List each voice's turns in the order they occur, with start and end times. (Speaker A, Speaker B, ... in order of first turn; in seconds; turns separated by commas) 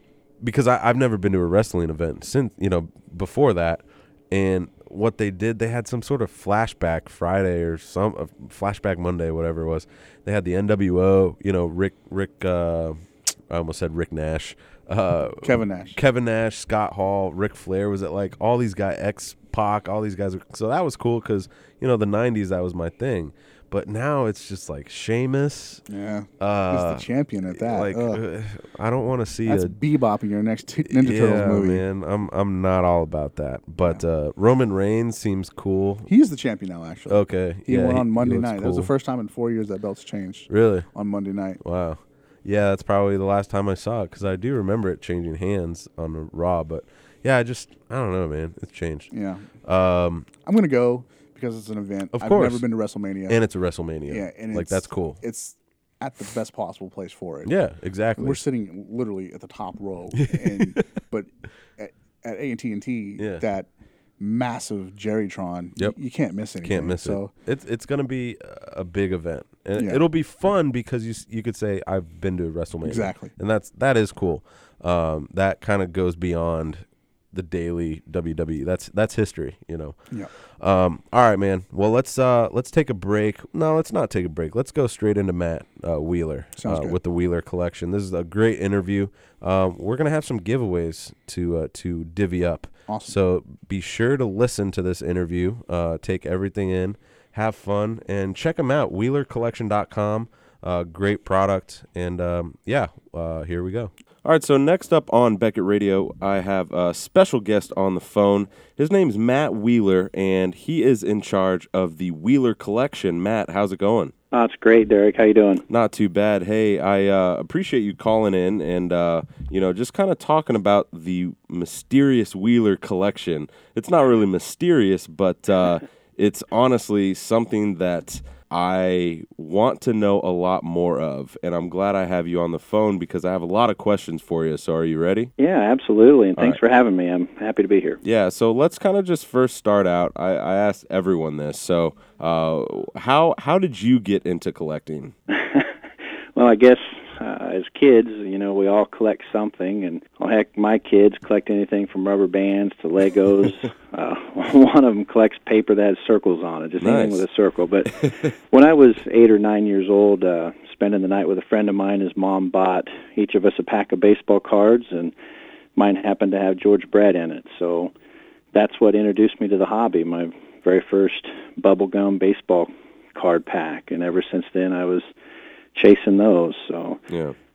Speaker A: 0.4-25.8, Speaker B: 15.4-16.0, Speaker B: 25.9-28.2, Speaker A: 26.4-29.8, Speaker B: 29.4-31.8, Speaker A: 30.9-36.1, Speaker B: 36.1-41.6, Speaker A: 37.1-38.9, Speaker A: 40.5-40.9, Speaker A: 41.6-49.1, Speaker B: 49.1-49.5, Speaker A: 49.6-50.3, Speaker B: 50.4-53.4, Speaker A: 52.1-52.6, Speaker A: 53.3-55.2, Speaker B: 54.1-57.5, Speaker A: 57.4-58.4, Speaker B: 58.2-67.3, Speaker A: 60.2-60.8, Speaker A: 66.6-80.0, Speaker B: 69.8-70.0, Speaker B: 72.8-73.3, Speaker A: 80.6-114.1, Speaker B: 86.6-87.0, Speaker B: 92.9-93.2, Speaker C: 114.3-115.6, Speaker A: 115.7-135.3, Speaker C: 135.4-138.0, Speaker A: 138.0-145.1, Speaker C: 145.3-145.7, Speaker C: 146.3-165.1, Speaker A: 156.8-157.2, Speaker C: 165.8-167.9, Speaker C: 168.5-175.1, Speaker C: 175.7-177.0, Speaker A: 177.1-177.3